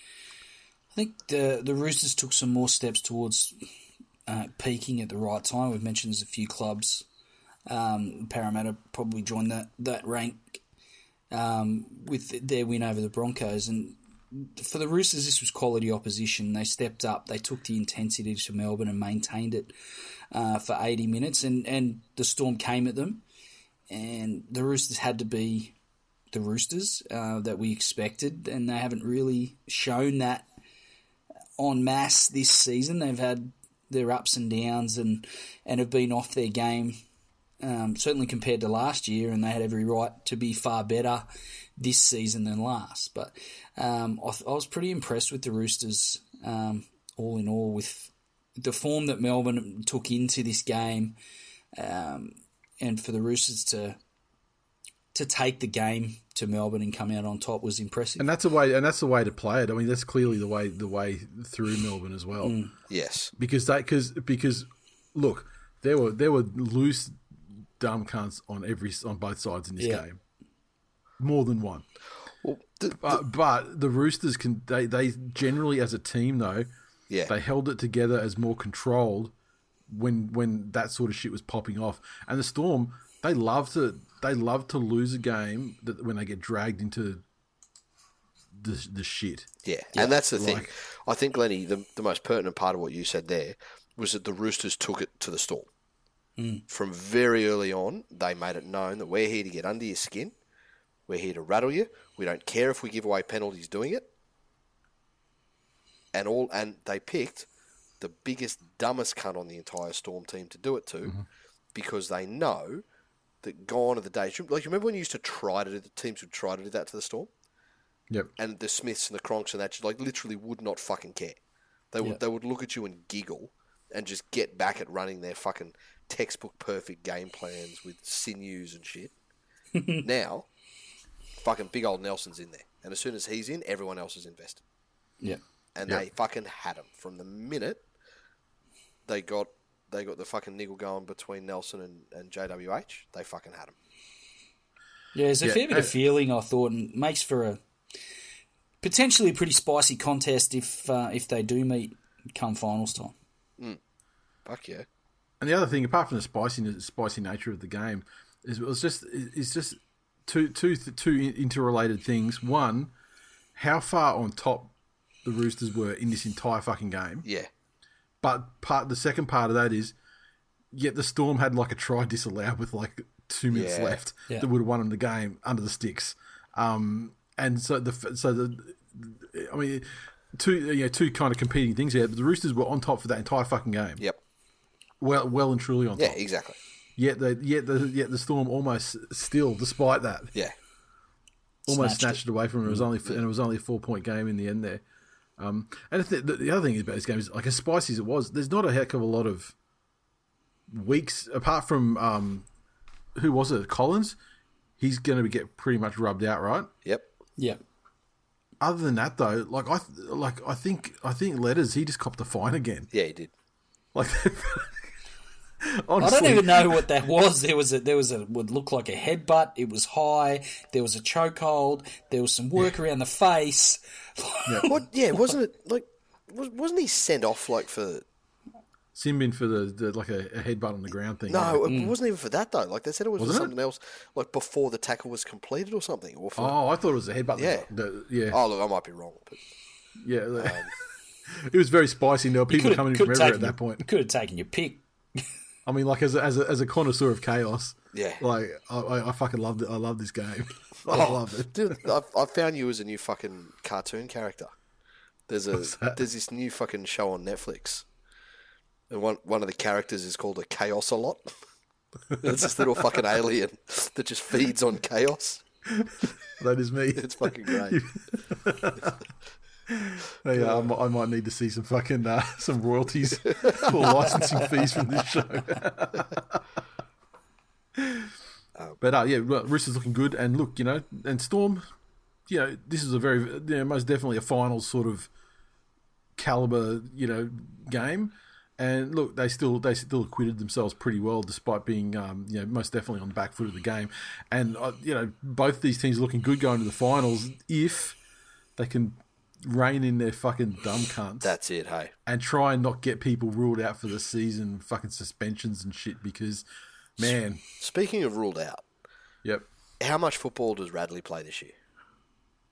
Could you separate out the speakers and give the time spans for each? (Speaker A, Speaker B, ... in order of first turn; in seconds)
Speaker A: 0.9-3.6, 4.3-7.1, 7.7-10.6, 11.3-19.7, 20.3-23.2, 23.9-25.8, 26.3-30.5, 31.6-37.0, 37.6-51.1, 51.7-54.0, 55.1-58.3, 62.4-62.7, 69.8-70.0, 96.4-96.6, 129.8-130.0, 145.1-147.6, 148.8-153.1, 191.7-192.2, 216.0-224.8, 231.7-231.9, 242.5-245.2
Speaker B: 58.2-62.6, 63.4-70.2, 71.2-71.9, 73.0-76.7, 77.3-79.3, 79.9-87.2, 88.5-89.5, 90.3-90.7, 145.4-145.9, 155.4-162.9, 163.6-164.7, 165.2-167.2, 168.2-169.9, 170.7-184.0, 185.0-186.2, 187.0-190.3, 191.7-194.8, 195.4-199.6, 200.7-202.5, 203.1-204.2, 204.8-206.7, 208.6-212.9, 213.9-214.9, 215.6-216.9, 228.9-231.7, 233.2-233.5, 236.4-238.4, 240.0-240.7, 241.3-243.9, 245.7-251.8, 255.5-256.0, 262.1-263.0, 265.7-269.0, 269.7-276.4, 277.8-278.1, 278.8-281.7, 282.3-285.1, 286.1-298.0, 298.6-301.4, 302.1-306.4, 307.0-307.4
Speaker C: 62.9-63.3, 72.4-73.2, 89.6-95.7, 96.7-100.3, 101.1-104.1, 106.1-107.5, 108.0-111.1, 111.7-112.8, 113.4-117.3, 118.4-121.4, 121.9-129.1, 130.0-130.5, 131.4-134.6, 135.7-137.8, 139.1-143.7, 154.4-154.9, 167.2-167.5, 173.5-174.0, 186.0-186.6, 212.9-213.3, 224.7-228.0, 231.3-236.6, 237.4-237.7, 238.3-239.5, 240.4-240.7, 247.9-248.2, 250.9-254.5, 255.3-257.9, 258.9-261.3, 262.2-265.4, 266.9-267.8, 270.3-270.7, 273.4-273.8, 301.2-301.9, 307.6-308.6, 309.8-311.6